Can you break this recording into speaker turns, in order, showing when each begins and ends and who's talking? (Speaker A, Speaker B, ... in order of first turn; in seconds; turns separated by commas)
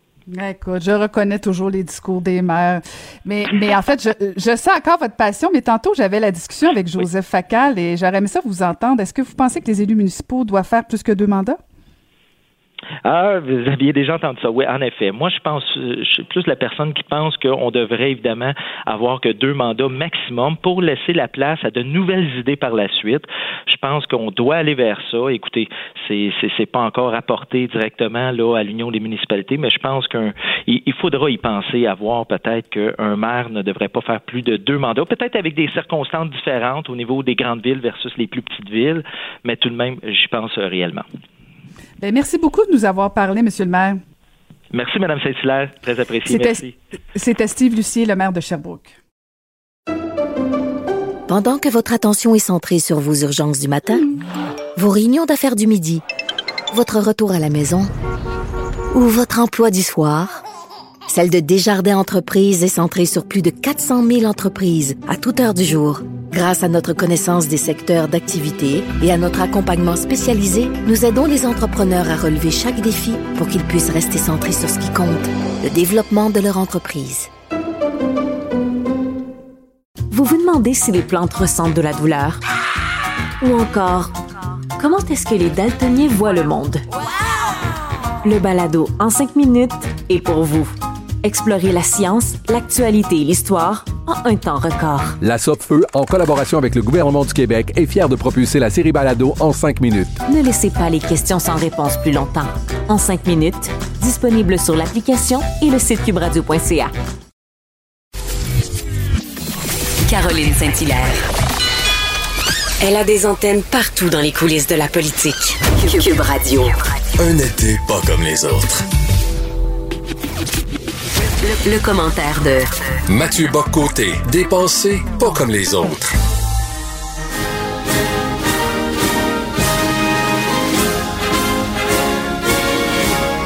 Speaker A: 0.3-11.6, Speaker B: 13.0-41.0, Speaker A: 42.0-44.0, Speaker B: 44.7-46.8, Speaker A: 46.2-46.6, Speaker A: 47.1-48.9, Speaker C: 51.3-54.0, Speaker C: 54.8-56.0, Speaker C: 56.7-57.9, Speaker C: 58.9-60.4, Speaker C: 61.1-77.3, Speaker D: 80.1-82.4, Speaker D: 83.4-84.1, Speaker D: 84.8-86.8, Speaker D: 88.2-95.2, Speaker E: 95.2-100.2, Speaker D: 100.2-106.9, Speaker F: 110.1-111.2, Speaker F: 112.8-116.8, Speaker G: 117.2-118.8, Speaker F: 121.4-122.8, Speaker G: 123.1-126.2